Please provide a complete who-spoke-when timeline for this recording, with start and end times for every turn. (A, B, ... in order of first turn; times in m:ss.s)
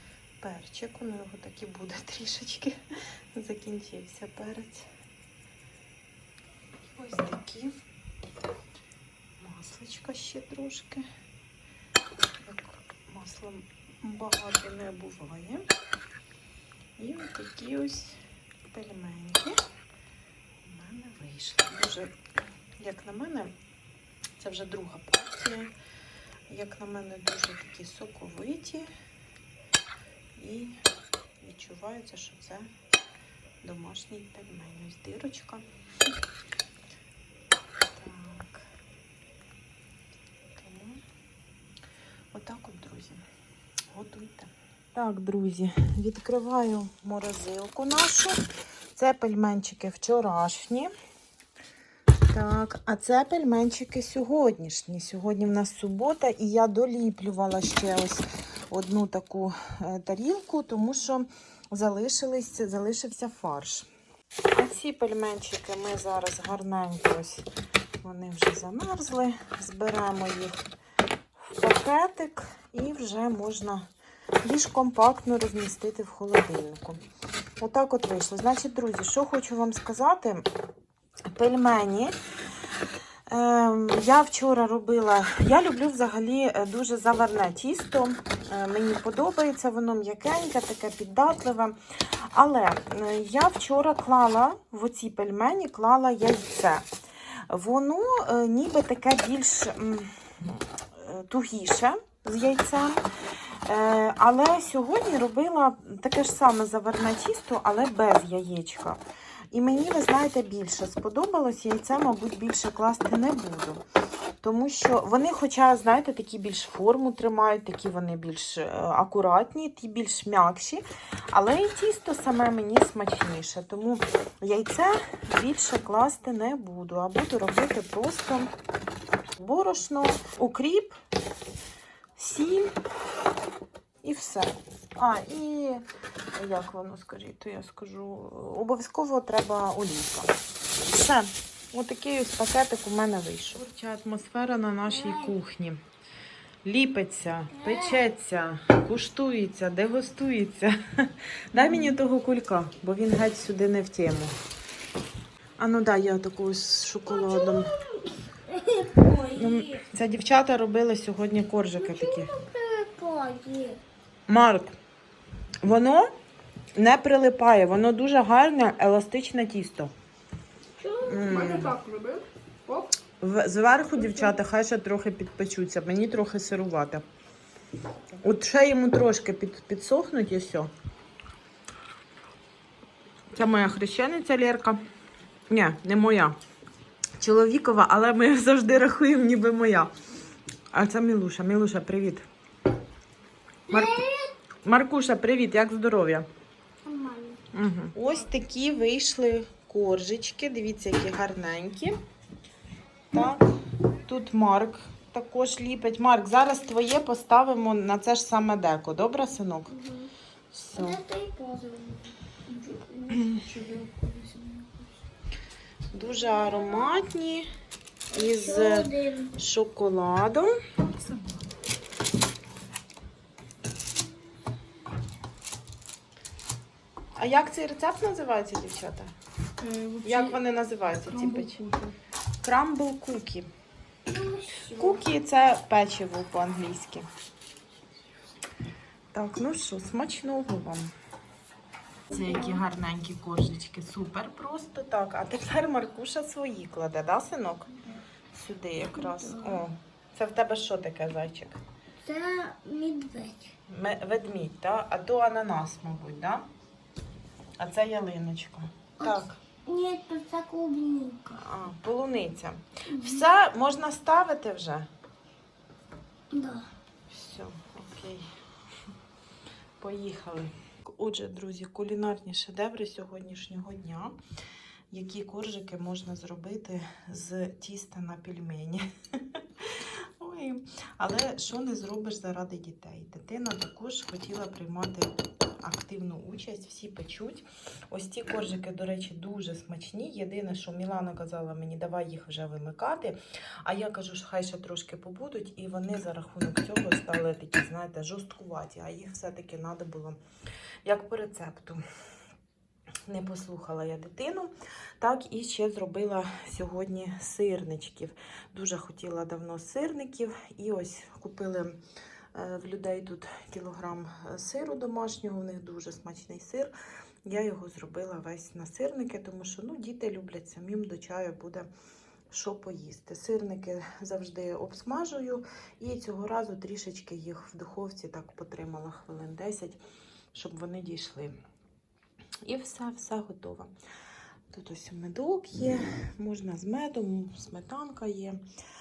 0:00.4-0:02.8 A
0:03.3-0:04.9 A
0:06.9-0:07.8 A
0:09.4-0:11.0 A
0:12.4-0:15.7 A
0:17.0-0:19.6 A
0:20.6-0:22.2 A
0:22.8-0:23.5 A
0:24.4-0:25.7 A
0:26.5-0:28.9 A
0:30.4-0:30.8 A
0:31.4-0:32.7 A
0:33.6-0:35.6 A
0:38.0-0:38.7 A
0:40.6-0:41.0 A
0:42.3-0:43.2 A
0:43.9-0:48.4 A
0:48.9-0:50.9 A
0:52.2-1:03.9 A
1:04.5-1:07.4 A
1:08.0-1:10.6 A
1:11.4-1:13.9 A
1:14.4-1:17.0 A
1:17.6-1:20.5 A
1:21.3-1:22.2 A
1:23.3-1:31.8 A
1:32.3-1:36.9 A
1:37.5-1:43.0 A
1:43.6-1:53.8 A
1:54.4-2:08.5 A
2:09.4-2:11.0 A
2:12.2-2:12.7 A
2:14.0-2:15.8 A
2:16.4-2:20.3 A
2:20.9-2:25.8 A
2:26.6-2:34.3 A
2:27.6-2:28.0 B
2:35.6-2:37.8 A
2:37.2-2:39.8 B
2:39.1-2:42.3 A
2:41.8-2:43.8 B
2:44.3-2:44.8 A
2:45.6-2:46.1 A
2:46.7-2:49.9 A
2:50.8-2:52.9 C
2:51.0-2:51.8 A
2:53.2-2:57.0 A
2:58.2-3:00.7 A
3:03.3-3:04.8 A
3:05.5-3:06.4 A
3:07.2-3:09.9 A
3:10.7-3:12.2 A
3:13.7-3:14.0 A
3:13.7-3:14.3 B
3:14.6-3:16.2 A
3:16.8-3:17.4 B
3:17.5-3:22.0 A
3:23.1-3:23.5 A
3:24.0-3:29.7 A
3:29.7-3:30.1 B
3:30.5-3:31.0 A
3:30.7-3:34.6 B
3:33.1-3:33.4 A
3:33.4-3:34.6 C
3:35.9-3:37.5 A
3:36.0-3:37.0 B
3:38.1-3:41.4 A
3:38.1-3:39.3 B
3:47.2-3:49.1 A
3:49.6-3:50.4 C
3:50.0-3:51.6 A
3:51.1-3:52.0 C
3:52.4-3:53.5 A
3:54.1-3:55.0 B
3:54.7-3:57.1 A
3:59.1-4:00.9 A
4:02.1-4:11.6 A
4:09.1-4:09.6 B
4:12.0-4:13.5 B
4:13.7-4:16.4 A
4:17.6-4:19.4 A
4:19.0-4:21.4 B
4:21.3-4:24.9 A
4:22.9-4:23.2 B
4:26.3-4:26.7 B
4:27.1-4:28.2 A
4:29.8-4:34.2 A
4:34.9-5:00.2 A
5:00.8-5:01.8 A
5:03.1-5:11.8 A
5:12.4-5:16.7 A
5:17.2-5:21.7 A
5:22.3-5:29.8 A
5:30.3-5:31.3 A
5:32.4-5:33.7 A
5:34.5-5:38.4 A